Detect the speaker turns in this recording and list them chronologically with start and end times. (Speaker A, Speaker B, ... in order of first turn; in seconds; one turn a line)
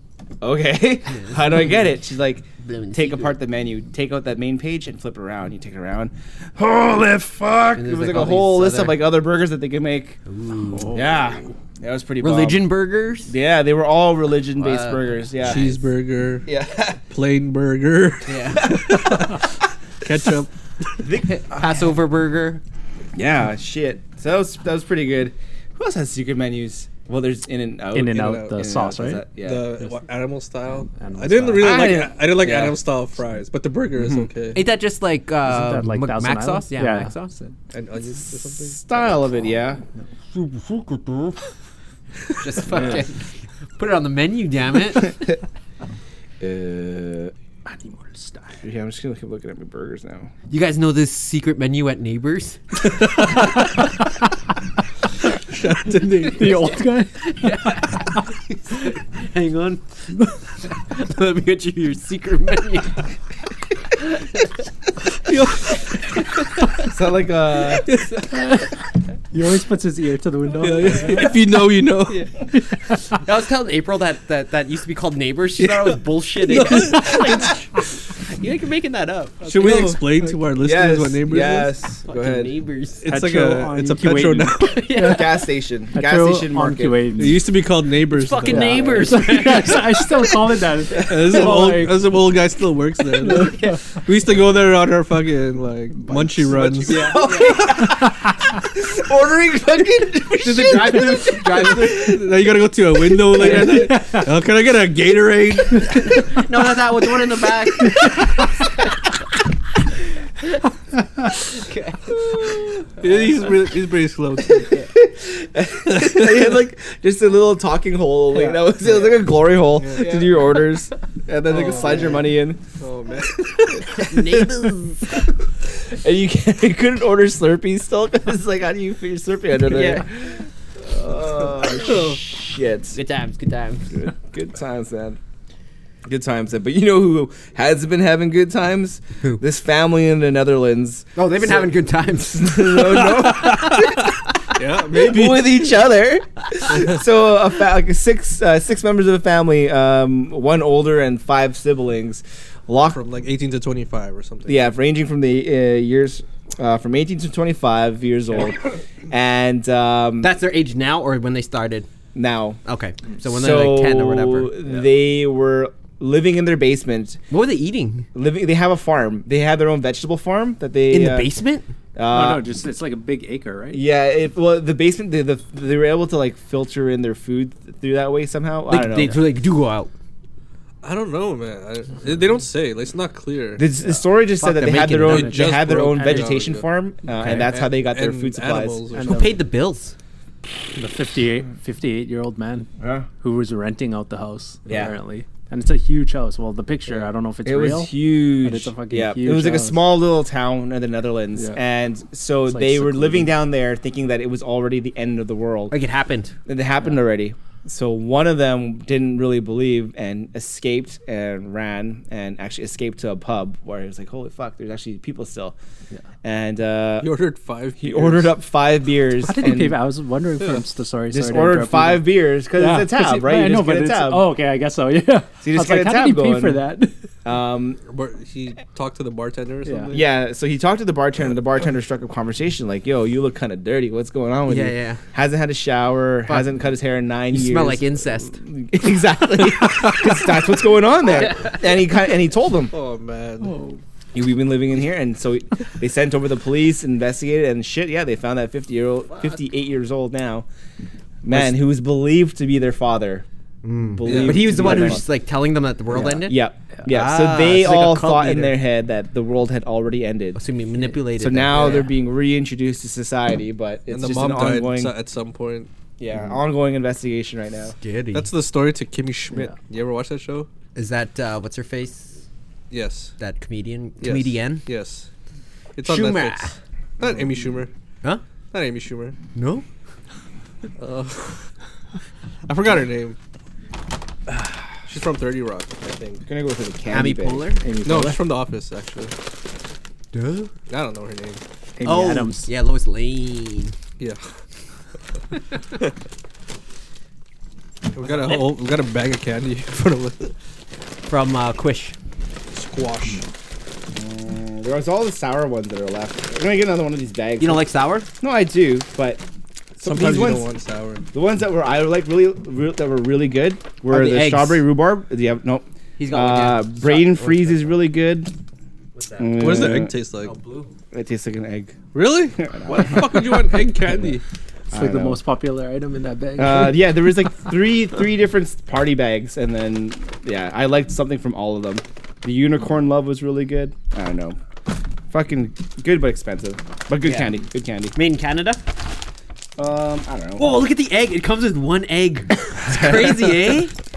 Speaker A: 0.4-10.2
Speaker B: 2.6-3.3
Speaker B: 7.8-9.1
Speaker B: 10.2-11.1
Speaker A: 10.9-12.7
Speaker B: 12.2-13.3
Speaker A: 13.3-15.8
Speaker B: 14.6-15.1
Speaker C: 15.4-16.5
Speaker A: 16.4-17.0
Speaker C: 17.1-21.0
Speaker B: 18.2-18.8
Speaker A: 18.7-19.3
Speaker A: 21.0-21.7
Speaker B: 21.2-22.6
Speaker A: 23.1-29.7
Speaker D: 27.9-29.2
Speaker C: 28.1-28.5
Speaker C: 29.4-34.6
Speaker D: 30.9-31.9
Speaker A: 31.6-32.8
Speaker A: 34.0-34.3
Speaker B: 34.5-37.5
Speaker D: 35.4-37.1
Speaker C: 37.7-39.2
Speaker A: 38.6-39.8
Speaker B: 40.3-41.4
Speaker B: 42.4-43.2
Speaker B: 43.8-45.2
Speaker A: 46.4-47.3
Speaker D: 47.6-48.6
Speaker A: 48.6-50.3
Speaker B: 50.5-52.6
Speaker C: 52.8-53.7
Speaker C: 55.5-56.8
Speaker D: 56.3-58.2
Speaker B: 57.2-59.8
Speaker B: 60.7-63.0
Speaker C: 65.2-65.8
Speaker A: 66.8-67.9
Speaker D: 68.3-68.7
Speaker D: 69.3-71.3
Speaker C: 70.6-72.2
Speaker B: 73.1-77.7
Speaker C: 75.6-77.5
Speaker B: 78.2-79.9
Speaker C: 79.4-82.4
Speaker A: 79.6-80.0
Speaker A: 80.6-82.5
Speaker B: 82.1-83.0
Speaker C: 83.0-84.8
Speaker D: 83.1-85.3
Speaker B: 84.6-85.3
Speaker A: 85.0-87.1
Speaker D: 85.9-87.4
Speaker C: 87.2-89.0
Speaker B: 88.1-90.1
Speaker D: 88.4-92.1
Speaker C: 90.9-97.1
Speaker D: 93.2-93.8
Speaker B: 93.2-93.8
Speaker D: 96.0-96.5
Speaker A: 96.6-102.2
Speaker B: 96.8-97.8
Speaker B: 100.4-102.2
Speaker C: 101.6-106.2
Speaker D: 103.3-104.3
Speaker B: 106.0-108.5
Speaker B: 111.4-112.2
Speaker A: 112.2-112.7
Speaker C: 113.0-114.7
Speaker A: 114.7-122.6
Speaker C: 115.8-116.4
Speaker C: 118.8-119.2
Speaker C: 119.7-120.3
Speaker C: 121.3-122.3
Speaker C: 122.8-123.9
Speaker B: 123.9-125.2
Speaker A: 123.9-133.0
Speaker B: 129.7-130.1
Speaker C: 131.7-132.2
Speaker B: 132.9-133.9
Speaker A: 133.9-135.2
Speaker A: 136.0-144.2
Speaker B: 141.2-144.1
Speaker C: 143.2-143.9
Speaker C: 144.5-145.7
Speaker A: 144.8-153.0
Speaker C: 146.7-147.0
Speaker C: 152.9-154.7
Speaker A: 154.4-160.3
Speaker B: 160.2-161.9
Speaker A: 162.1-162.6
Speaker B: 162.6-164.5
Speaker A: 163.2-167.2
Speaker B: 167.3-168.1
Speaker A: 168.1-171.3
Speaker B: 170.9-171.7
Speaker A: 171.9-172.4
Speaker D: 172.1-173.8
Speaker A: 173.7-179.2
Speaker B: 178.7-179.9
Speaker C: 180.8-183.6
Speaker A: 183.6-188.8
Speaker B: 184.4-185.5
Speaker C: 185.0-186.7
Speaker D: 185.5-186.4
Speaker B: 187.2-187.5
Speaker C: 187.2-189.4
Speaker D: 188.9-189.4
Speaker B: 189.0-189.9
Speaker D: 190.7-199.8
Speaker A: 192.8-193.1
Speaker A: 194.7-194.9
Speaker A: 196.9-205.7
Speaker D: 202.5-203.3
Speaker B: 205.7-206.3
Speaker A: 206.4-215.6
Speaker A: 216.2-217.1
Speaker C: 217.0-218.3
Speaker A: 217.8-219.8
Speaker D: 219.2-226.9
Speaker A: 221.1-224.3
Speaker A: 225.4-226.6
Speaker A: 227.2-227.8
Speaker C: 227.9-230.1
Speaker D: 229.6-229.9
Speaker A: 229.9-242.7
Speaker B: 234.5-235.0
Speaker B: 237.3-238.4
Speaker C: 242.7-243.6
Speaker D: 243.4-243.8
Speaker A: 244.1-250.4
Speaker A: 251.2-253.2
Speaker B: 253.6-258.6
Speaker A: 253.9-255.1
Speaker C: 254.0-254.9
Speaker A: 255.9-260.4
Speaker B: 260.3-261.9
Speaker A: 261.1-264.9
Speaker C: 263.9-265.7
Speaker A: 266.0-267.7
Speaker B: 267.8-268.3
Speaker C: 268.1-270.5
Speaker B: 270.7-272.2
Speaker C: 272.7-273.1
Speaker B: 273.2-274.6
Speaker C: 274.0-275.1
Speaker C: 275.7-277.7
Speaker B: 275.8-276.5
Speaker C: 278.5-279.1
Speaker B: 279.3-279.6
Speaker C: 280.8-281.4
Speaker C: 282.4-283.2
Speaker C: 284.8-286.2
Speaker A: 286.3-287.5
Speaker B: 286.9-287.6
Speaker D: 287.6-288.3
Speaker C: 287.8-289.1
Speaker B: 290.1-290.5
Speaker C: 290.7-291.4
Speaker D: 291.8-292.5
Speaker B: 291.8-293.7
Speaker C: 297.9-300.3
Speaker B: 298.1-298.4
Speaker B: 301.1-301.9
Speaker C: 302.5-303.2
Speaker A: 303.9-307.6
Speaker B: 307.4-308.1
Speaker A: 308.2-309.2
Speaker A: 309.8-310.5
Speaker C: 309.8-311.0
Speaker A: 311.1-318.3
Speaker B: 313.9-314.6
Speaker B: 316.0-317.7
Speaker B: 318.9-319.6
Speaker A: 319.2-319.9
Speaker C: 319.4-320.3
Speaker B: 320.2-320.7
Speaker A: 320.9-321.8
Speaker C: 321.9-324.2
Speaker A: 322.4-323.6
Speaker A: 324.7-325.2
Speaker D: 324.7-326.9
Speaker A: 326.4-334.4
Speaker A: 335.1-337.9
Speaker B: 337.0-337.3
Speaker B: 337.9-338.6
Speaker A: 339.6-340.6
Speaker B: 340.4-343.7